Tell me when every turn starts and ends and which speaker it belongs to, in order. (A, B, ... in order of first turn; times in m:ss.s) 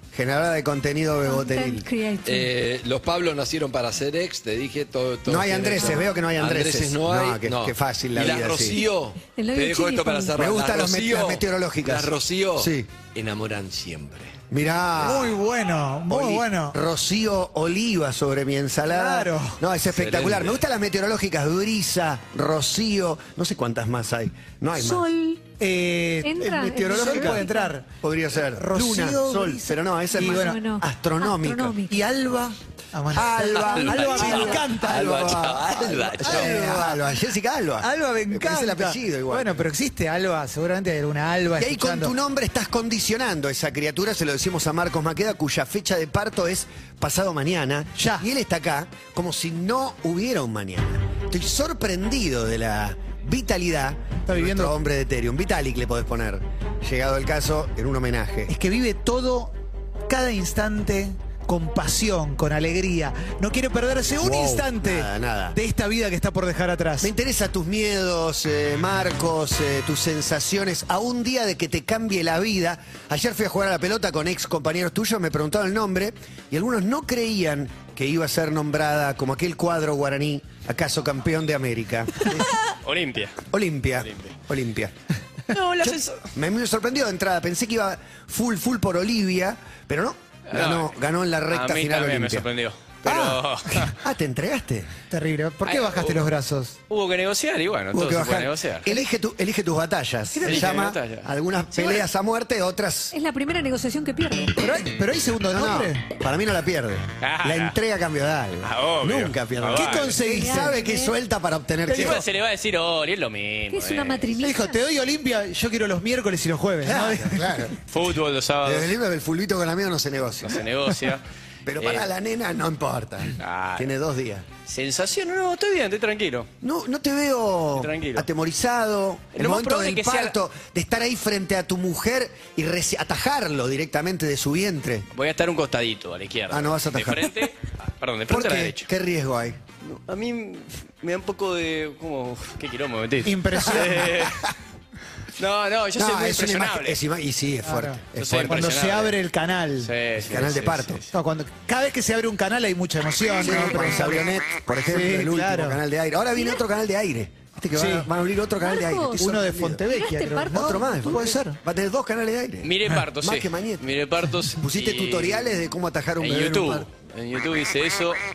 0:00.1-0:01.9 A
0:01.2-0:02.5 B
0:02.2-0:14.4 C
0:05.2-0:08.8 A
0:05.7-0:06.1 B
0:09.2-0:10.4 B
0:10.4-0:12.9 A
0:14.5-0:15.3 A
0:15.0-0:16.8 D
0:16.1-0:25.1 A
0:18.9-0:19.6 D
0:19.9-0:20.6 C
0:24.8-0:25.4 B
0:25.6-0:27.9 D
0:26.2-0:27.7 B
0:26.4-0:27.5 A
0:28.0-0:31.8 A
0:28.6-0:30.6 D
0:30.1-0:32.0 B
0:31.9-0:37.1 D
0:33.1-0:39.6 A
0:33.6-0:34.5 E
0:34.6-0:36.6 C
0:37.8-0:42.1 D
0:41.6-0:58.5 A
0:48.0-0:48.2 D
0:54.3-0:54.8 D
0:58.5-0:59.5 D
1:00.1-1:07.1 D
1:04.2-1:05.6 A
1:07.0-1:22.5 A
1:22.3-1:23.4 E
1:23.5-1:24.9 A
1:24.0-1:24.3 E
1:25.5-1:26.2 E
1:25.8-1:32.5 A
1:30.5-1:30.9 E
1:31.5-1:34.0 E
1:33.0-1:34.9 A
1:35.1-1:36.8 D
1:35.6-1:36.2 E
1:36.9-1:38.9 E
1:37.9-1:43.1 A
1:40.4-1:42.0 E
1:43.1-1:44.6 B
1:44.6-1:46.0 D
1:45.5-1:52.2 A
1:47.2-1:47.8 E
1:48.6-1:50.2 E
1:49.7-1:50.8 D
1:50.2-1:51.1 B
1:51.9-1:54.2 E
1:53.7-1:54.8 B
1:54.4-1:57.7 D
1:56.8-1:57.8 A
1:57.9-1:58.9 E
1:58.6-2:00.6 A
2:00.4-2:01.2 E
2:01.6-2:04.5 A
2:01.8-2:02.1 E
2:03.4-2:03.9 E
2:04.6-2:06.5 E
2:06.6-2:15.1 A
2:07.8-2:08.3 E
2:09.3-2:10.3 E
2:15.1-2:18.9 E
2:16.5-2:17.5 A
2:18.3-2:19.6 A
2:19.8-2:24.4 E
2:23.2-2:24.3 D
2:25.4-2:27.0 E
2:25.9-2:28.7 A
2:27.6-2:29.9 D
2:28.2-2:29.1 E
2:29.8-2:31.1 E
2:30.2-2:31.0 A
2:31.1-2:34.3 D
2:33.4-2:39.8 A
2:34.8-2:35.8 D
2:37.7-2:38.1 D
2:38.6-2:39.2 B
2:39.2-2:41.6 D
2:39.8-2:41.4 B
2:40.5-2:43.9 A
2:42.6-2:45.6 E
2:44.5-2:46.9 A
2:46.2-2:48.2 E